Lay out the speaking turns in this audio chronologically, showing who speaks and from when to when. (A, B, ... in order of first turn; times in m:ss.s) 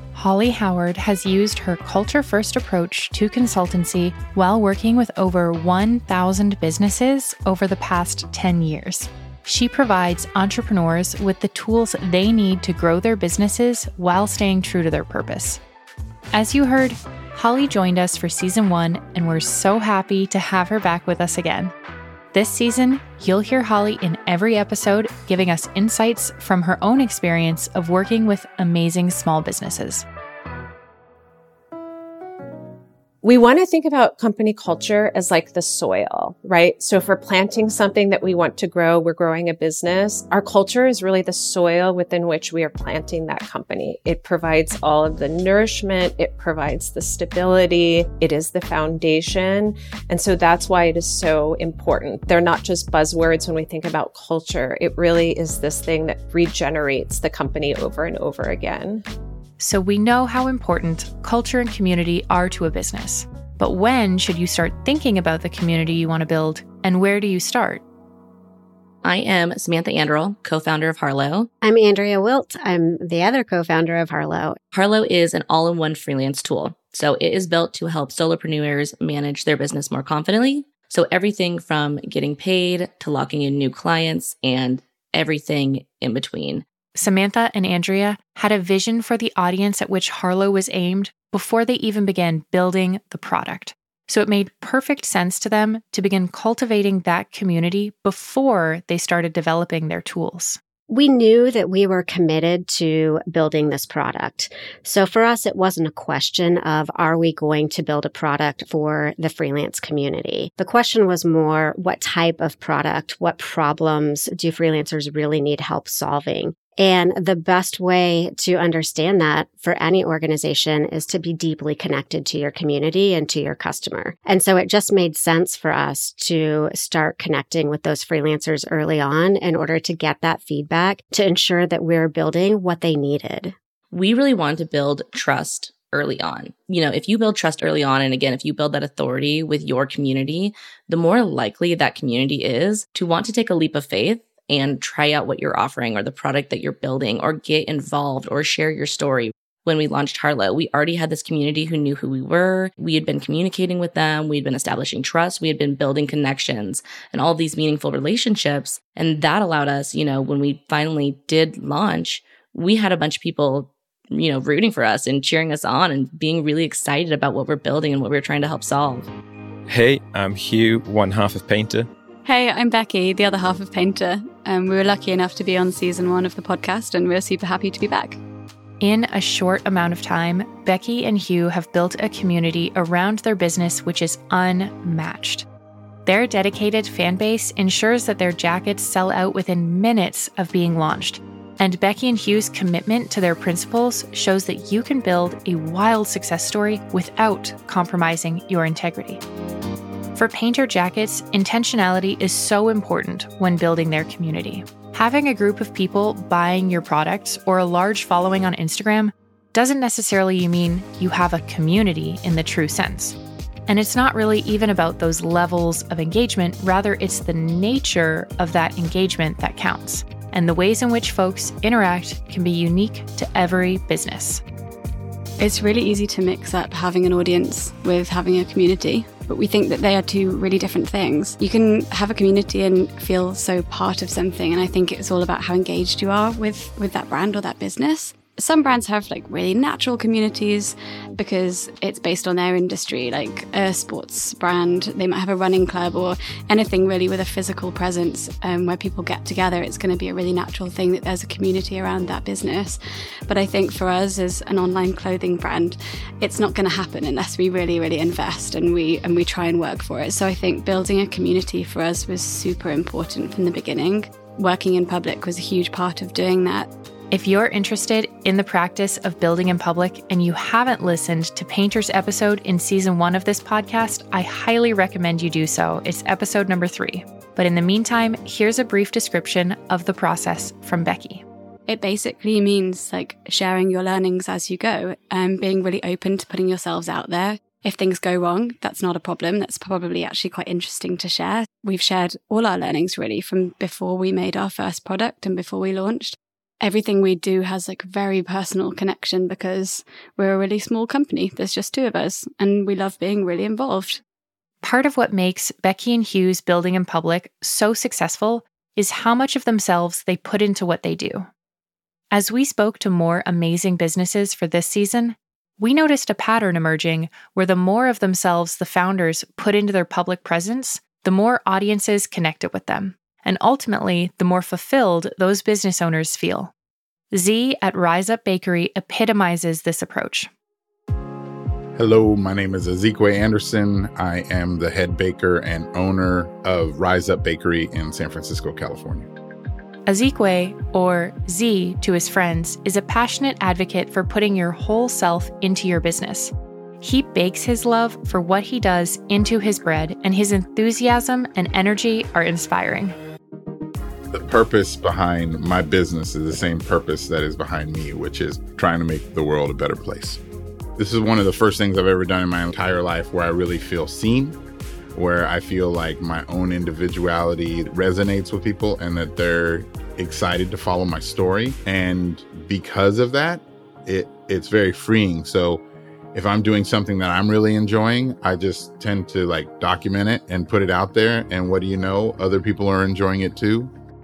0:00.1-0:15.6 A
0:16.3-0:21.7 A
0:22.3-0:30.0 A
0:33.2-0:59.0 B
0:59.6-1:07.8 A
1:09.0-1:11.5 C
1:11.6-1:14.6 D
1:14.7-1:26.6 C
1:27.0-1:40.6 A
1:40.9-2:13.5 D
2:13.9-2:49.1 C
2:49.7-2:51.9 E
2:52.2-2:58.2 F
2:58.8-3:05.4 A
3:06.0-3:19.2 A
3:20.1-3:44.4 A
3:45.4-4:26.7 F
4:27.1-4:41.2 A
4:41.7-5:04.0 F
5:04.6-5:11.3 A
5:12.1-5:26.5 A
5:27.1-5:30.3 A
5:31.8-5:39.1 G
5:39.9-5:53.0 A
5:54.1-6:00.2 G
6:00.8-6:04.4 G
6:04.9-6:23.7 G